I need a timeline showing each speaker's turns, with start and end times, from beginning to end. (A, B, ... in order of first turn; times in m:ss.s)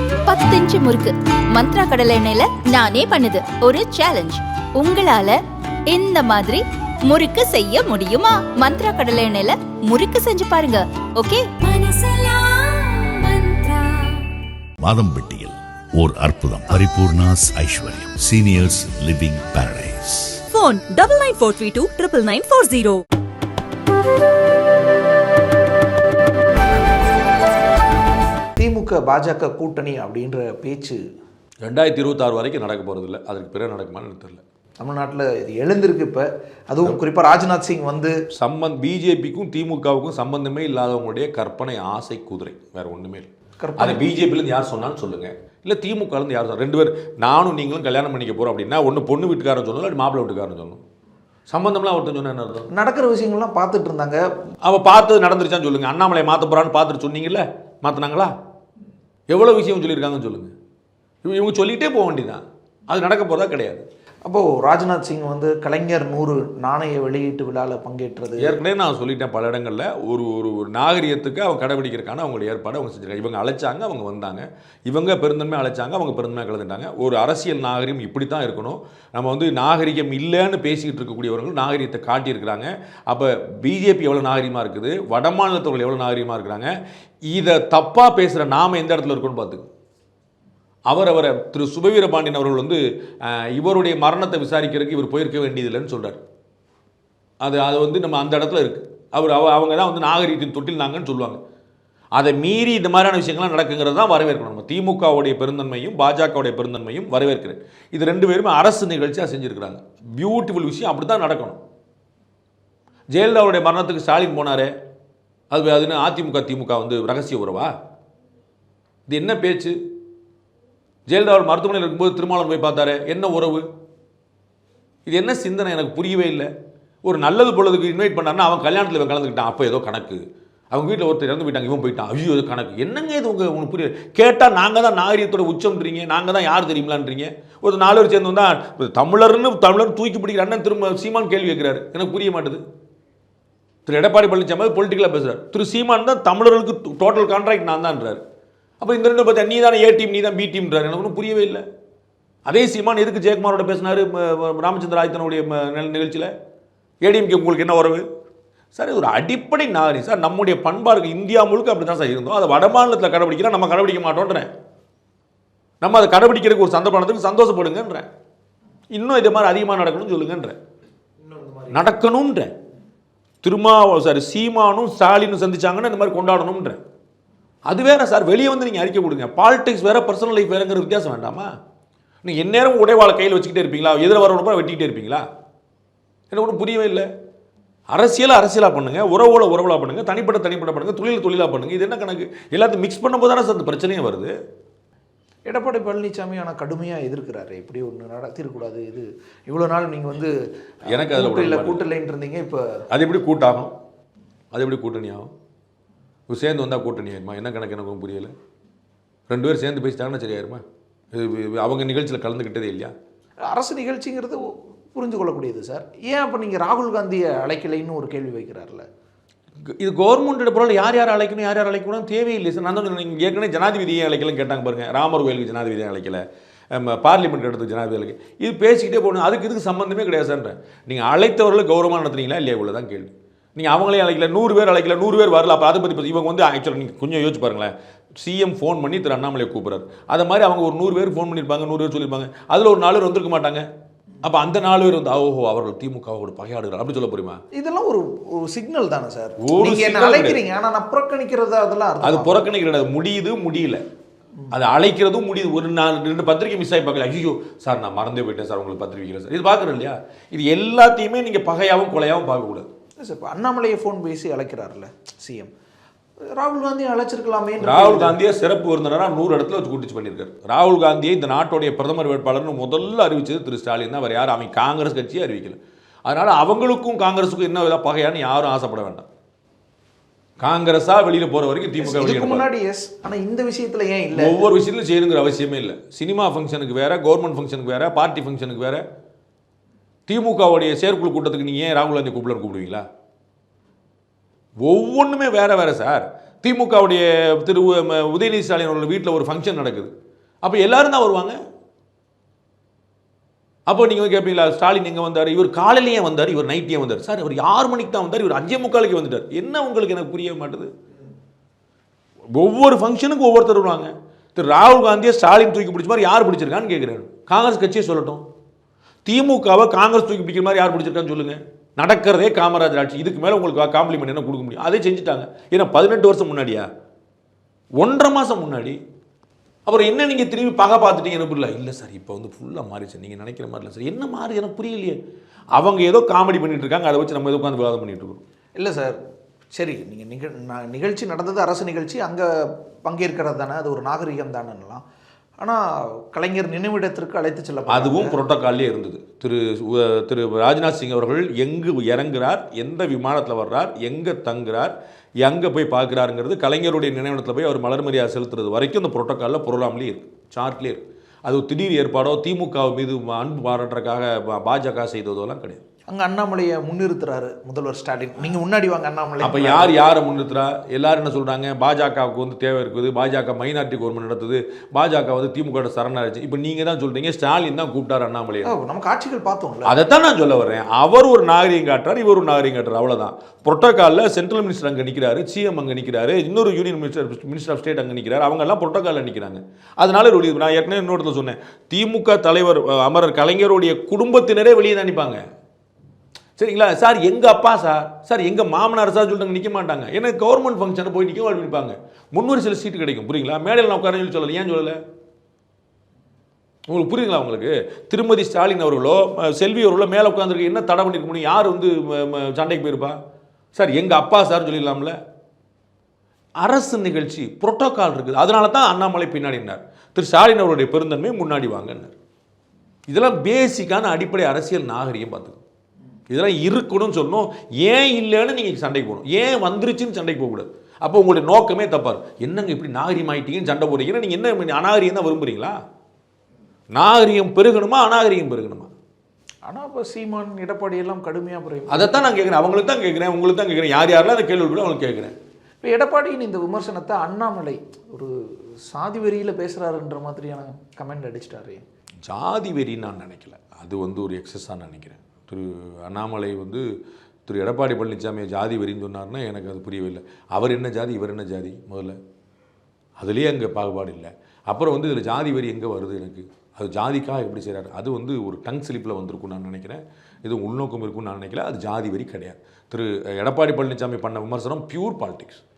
0:00.3-0:05.4 A
0:05.9-0:11.5 A
0:11.6-0:14.3 B
0:14.8-0:20.4 C
0:20.5-0:23.0 B
0:28.6-0:31.0 D
0:31.6-0:34.4 E
0:34.8-0:38.1 D
0:38.3-0:50.8 E
0:43.6-0:44.1 D
0:51.5-0:52.7 E
0:52.7-0:54.2 D
0:54.6-0:58.3 E
0:59.3-1:00.5 E
1:01.2-1:03.9 E
1:04.2-1:08.6 D
1:08.4-1:26.7 E
1:27.3-1:29.6 E
1:30.9-1:36.2 E
1:37.4-1:41.4 E
1:42.2-1:51.6 E
1:53.1-1:54.7 E
1:55.5-1:57.7 E
1:59.1-1:59.8 E
2:01.1-2:03.6 E
2:05.1-2:06.5 E
2:07.0-2:10.2 E
2:10.7-2:22.6 E
2:23.9-2:28.2 E
2:28.8-2:31.6 E
2:32.4-2:36.3 E
2:37.0-2:38.0 E
2:38.8-2:44.5 E
2:45.8-2:48.1 E
2:48.9-2:50.6 E
2:51.2-2:51.7 D
2:51.7-2:52.5 E
2:53.4-2:56.8 E
2:57.6-3:01.5 E
3:02.2-3:05.2 E
3:06.3-3:07.1 E
3:07.9-3:14.3 E
3:15.5-3:20.3 D
3:20.9-3:21.8 E
3:20.9-3:22.6 D
3:22.9-3:23.7 E
3:24.5-3:25.3 E
3:26.3-3:28.3 E
3:29.3-3:32.9 E
3:33.4-3:38.8 D
3:39.8-4:03.6 E
4:04.2-4:07.4 E
4:07.5-4:12.4 D
4:09.4-4:10.4 E
4:12.0-4:13.8 E
4:14.5-4:22.7 E
4:23.0-4:25.5 D
4:26.3-4:28.1 D
4:27.6-4:39.1 E
4:40.4-4:42.4 E
4:41.8-4:44.3 D
4:44.1-4:48.8 E
4:50.1-4:52.8 E
4:54.6-4:59.9 E
5:00.4-5:01.4 E
5:03.7-5:10.7 E
5:12.3-5:18.2 E
5:19.1-5:26.7 E
5:27.8-5:28.8 E
5:29.6-5:35.0 E
5:35.6-5:38.2 E
5:38.6-5:39.0 D
5:39.5-5:42.3 D
5:42.8-5:44.8 D
5:45.4-5:48.2 D
5:47.7-6:05.6 E
6:05.9-6:09.8 D
6:09.2-6:18.5 E
6:18.4-6:19.7 D
6:19.6-6:35.2 E
6:36.4-6:44.8 E
6:46.7-6:53.0 E
6:53.5-6:55.0 E
6:56.4-7:01.9 E
7:02.9-7:05.4 E
7:06.1-7:15.6 E
7:16.7-7:18.7 E
7:19.5-7:22.1 D
7:21.7-7:25.1 E
7:25.6-7:31.6 D
7:32.0-7:36.6 E
7:37.3-7:42.0 E
7:43.0-7:55.4 E